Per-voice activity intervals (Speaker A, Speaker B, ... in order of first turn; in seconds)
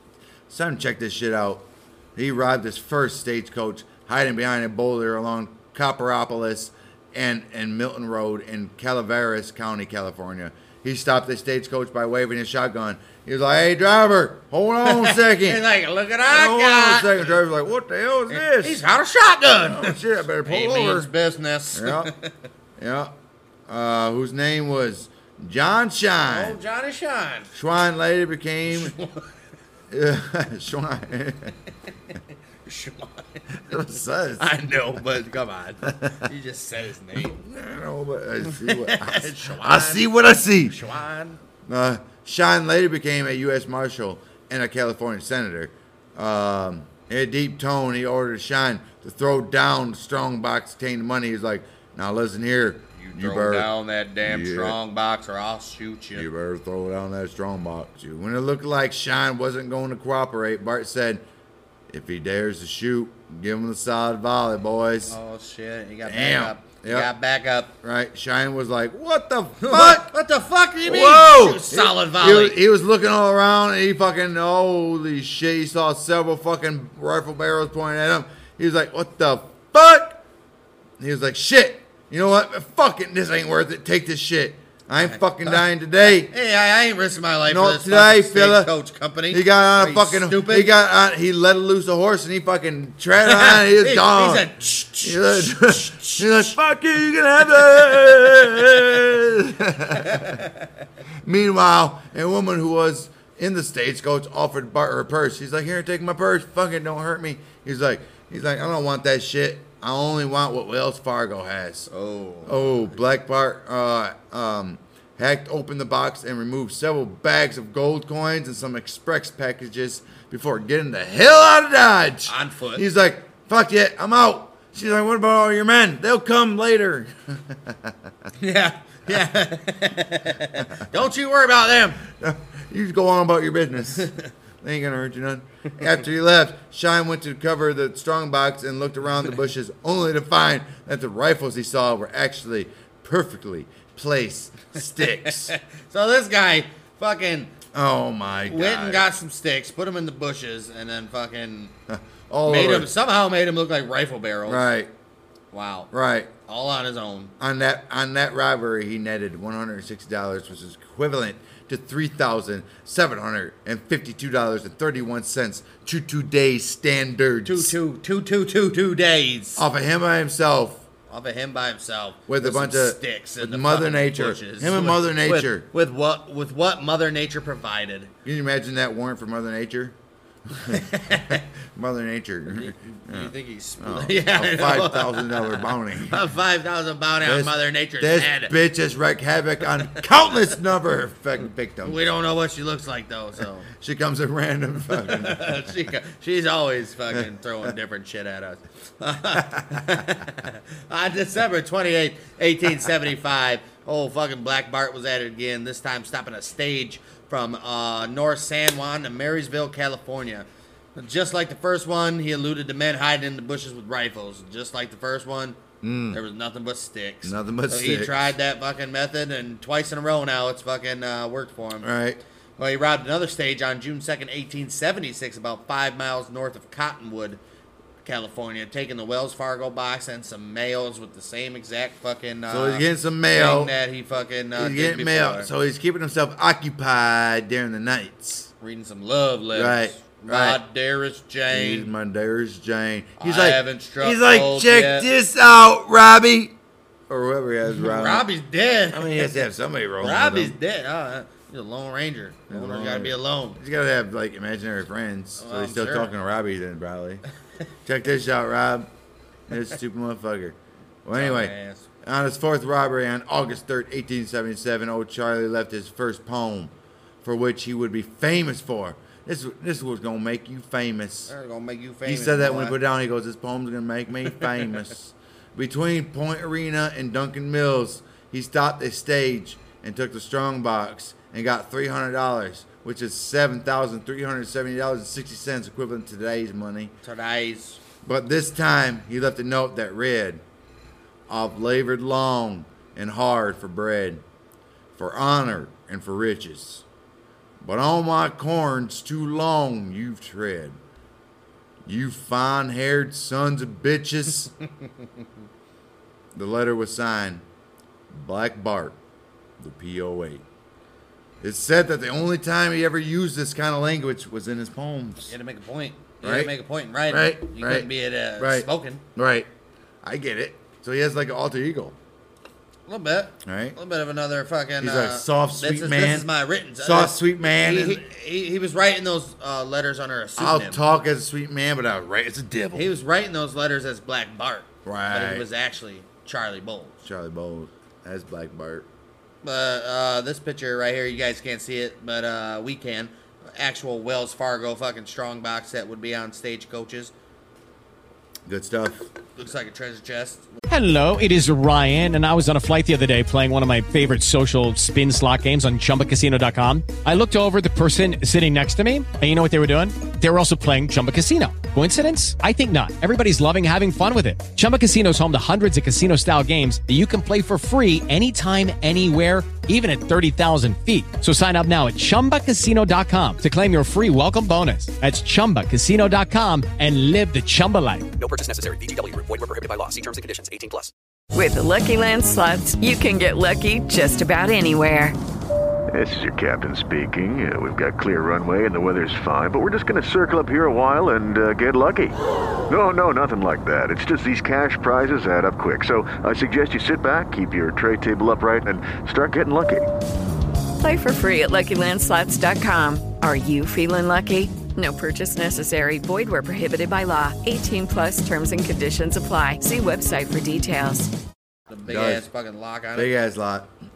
Speaker A: 0.5-15.6, 16.2-18.8, 19.6-21.1, 21.7-22.1, 22.8-23.1, 23.7-26.6, 27.5-28.9, 29.9-31.5, 33.7-34.5, 37.2-40.8, 41.6-54.8, 56.1-61.2, 61.9-65.2, 66.0-67.1, 67.8-70.2, 70.8-80.2, 81.0-86.3, 87.4-88.7, 89.3-94.5, 95.0-100.4, 101.2-111.9, 112.5-127.9, 132.0-134.1, 134.6-145.5, 147.7-149.1, 151.9-152.9, 154.5-154.9, 155.9-156.3, 157.4-167.8, 169.6-170.8, 172.3-175.7, 178.2-179.9, 180.5-186.2, 187.2-192.0, 193.7-195.7, 215.8-216.2, 217.2-218.3, 221.8-222.2, 232.5-233.7, 234.5-238.5, 239.5-240.6, 241.5-246.6, 247.1-248.3, 248.9-250.6, 252.5-257.2, 257.8-258.9, 259.5-271.3, 272.0-286.9, 288.0-290.4, 291.3-294.2, 294.9-296.8, 297.6-300.8, 301.8-304.5, 306.3-307.4, 308.1-308.9, 309.6-310.4, 311.4-315.3, 316.2-316.5, 317.1-319.5, 320.0-321.9, 323.4-323.8, 324.8-328.0, 330.4-332.9, 334.8-335.4, 337.0-338.9, 348.5-349.1, 411.9-412.2, 412.9-413.7
Speaker B: 14.8-17.4, 18.3-22.3, 26.2-27.5, 28.7-29.3, 32.1-37.4, 38.4-41.4, 53.0-56.2, 65.0-67.7, 69.6-72.6, 85.0-85.6, 86.2-90.7, 93.2-96.5, 97.5-98.8, 100.0-100.5, 111.9-112.9, 122.3-122.8, 128.4-132.0, 134.0-134.2, 145.0-147.5, 148.4-151.7, 152.4-154.7, 155.5-155.9, 156.5-157.3, 167.4-169.6, 171.1-178.1, 180.6-181.4, 182.5-188.5, 191.8-193.7, 194.9-215.6, 216.1-221.9, 222.6-227.4, 228.0-235.5, 238.6-241.9, 243.2-245.1, 247.7-249.4, 250.0-253.6, 255.4-256.1, 261.1-261.9, 271.3-272.8, 287.0-287.8, 315.2-319.0, 322.9-330.8, 332.7-337.0, 339.4-347.1, 349.4-350.5, 411.7-413.1
Speaker C: 350.7-378.1
Speaker D: 378.1-380.9
Speaker E: 381.3-385.1, 400.8-411.1
Speaker F: 385.9-392.1, 392.7-399.9